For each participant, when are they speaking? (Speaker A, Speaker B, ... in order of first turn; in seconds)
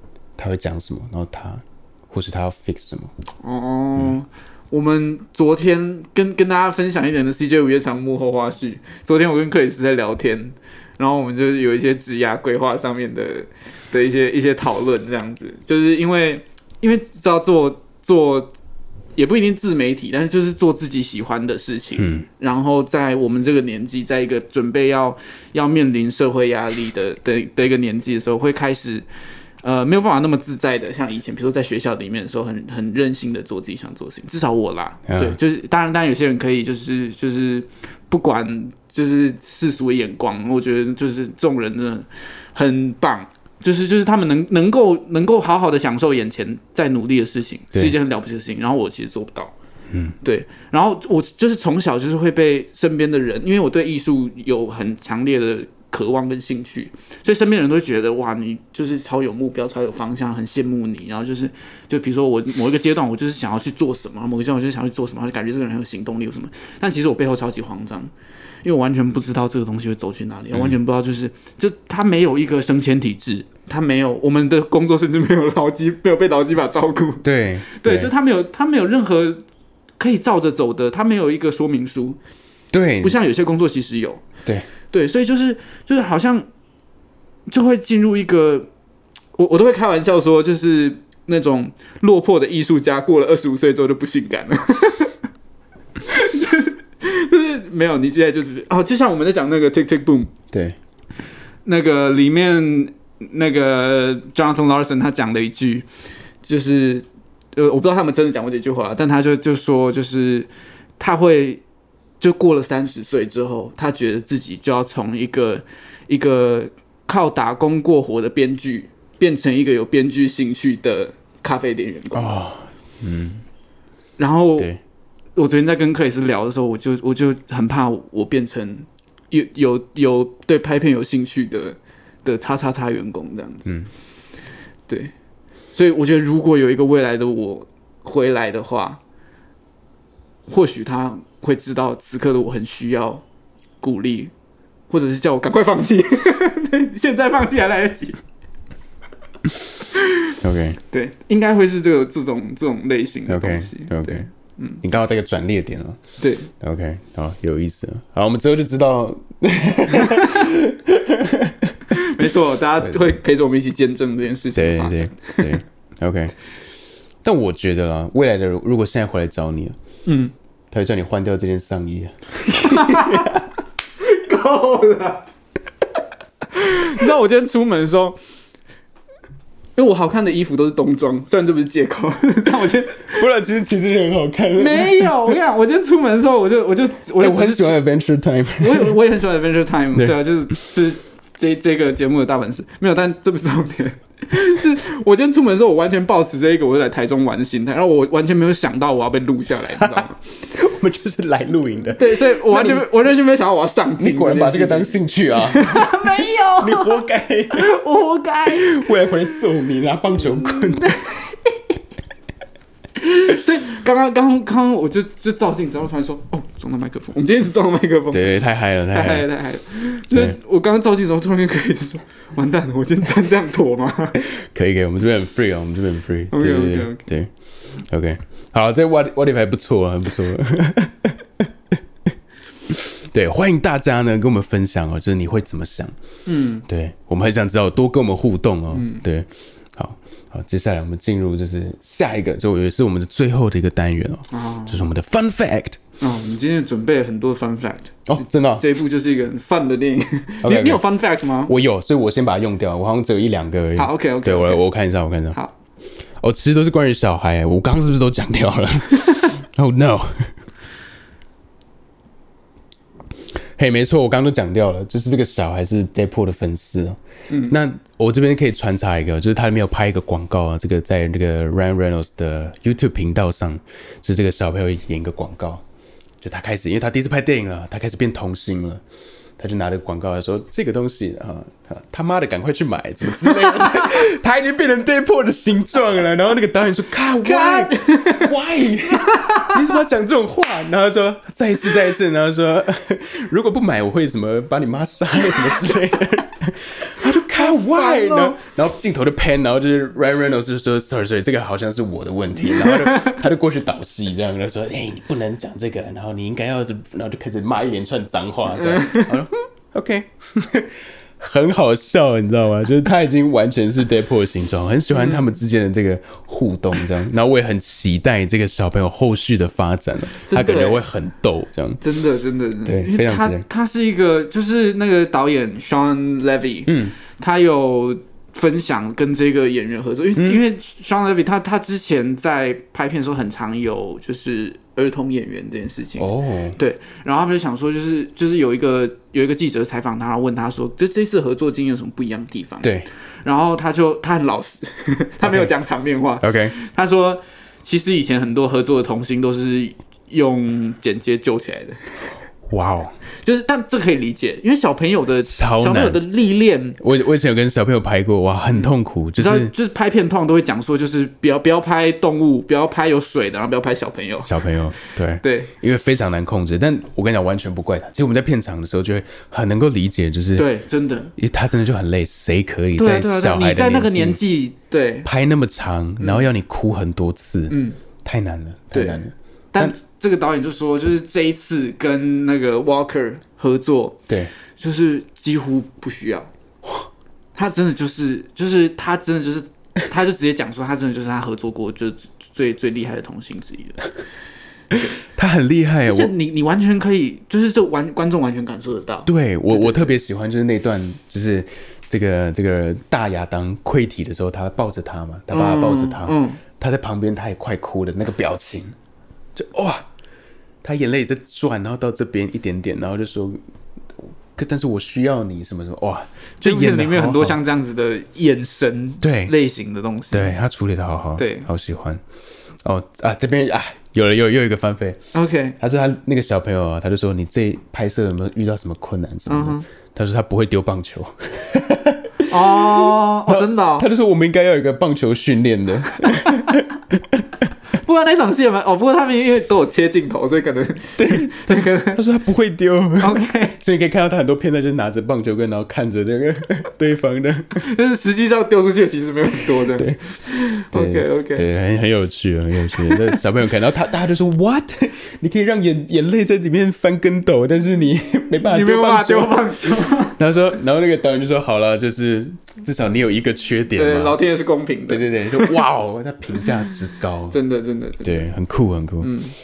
Speaker A: 0.4-3.1, 22.0-22.2, 35.1-35.4, 49.9-50.1, 77.2-78.1, 82.7-83.2, 100.5-100.8, 122.1-123.4, 133.7-133.9, 150.4-150.8, 153.3-154.2, 154.8-156.0, 156.6-162.0, 162.8-163.1, 164.5-166.3, 167.2-169.8, 170.7-173.4, 183.1-185.3, 187.2-188.9, 199.9-202.8, 204.0-207.7, 208.5-210.9, 218.1-219.3, 220.1-220.3, 224.3-231.4, 232.7-235.9, 236.7-245.8, 248.1-248.7, 250.4-250.8, 251.4-255.4, 256.2-260.3, 263.6-275.6, 276.2-278.8, 279.4-321.8, 322.6-323.4, 326.7-327.0, 330.1-330.4, 336.0-336.6, 342.6-342.9, 345.2-345.5, 346.2-346.5, 352.5-352.9, 355.2-356.0, 356.8-359.5, 364.2-370.5, 371.2-374.2, 375.0-379.8, 395.1-396.1, 399.1-408.8, 409.4-409.9, 410.6-413.4, 414.0-417.4, 419.0-419.3, 420.1-422.0, 422.6-425.0, 425.6-436.6, 441.0-447.6, 449.7-450.0, 450.5-459.5, 460.1-464.2, 464.9-467.4, 468.0-469.1
Speaker B: 3.4-18.5, 19.1-29.1, 29.6-49.5, 50.2-68.1, 68.6-79.4, 80.0-82.2, 83.0-84.2, 84.9-86.5, 87.5-88.7, 89.4-95.1, 96.0-100.3, 101.6-105.9, 106.4-111.6, 112.2-122.3, 124.2-124.7, 125.3-133.7, 134.9-135.1, 135.7-139.0, 140.5-143.2, 143.8-144.3, 144.9-148.2, 150.9-154.8, 156.2-156.5, 160.0-160.2, 161.9-165.6, 170.1-170.3, 172.6-173.3, 174.0-175.3, 176.5-178.2, 179.8-183.2, 184.6-187.8, 188.6-200.2, 201.9-208.8, 210.2-211.5, 213.0-224.2, 226.3-227.0, 236.2-236.7, 238.7-239.0, 244.3-244.8, 246.0-251.5, 253.8-254.6, 267.3-267.5, 283.4-283.8, 287.2-288.3, 288.9-289.7, 297.3-298.4, 302.5-303.2, 308.6-309.1, 314.9-315.3, 320.2-320.8, 321.8-351.9, 353.2-356.8, 358.5-364.5, 365.2-365.5, 370.4-371.1, 372.8-375.1, 376.0-376.3, 377.5-377.8, 378.7-384.0, 384.6-386.3, 387.3-393.9, 395.9-399.9, 405.3-406.4, 416.4-420.3, 421.2-421.5, 425.1-425.6, 429.3-429.6, 432.3-433.9, 436.0-436.5, 437.8-442.0, 443.0-443.6, 447.6-451.4, 452.7-453.2, 458.4-460.2, 463.7-465.6, 467.3-468.2, 469.0-469.3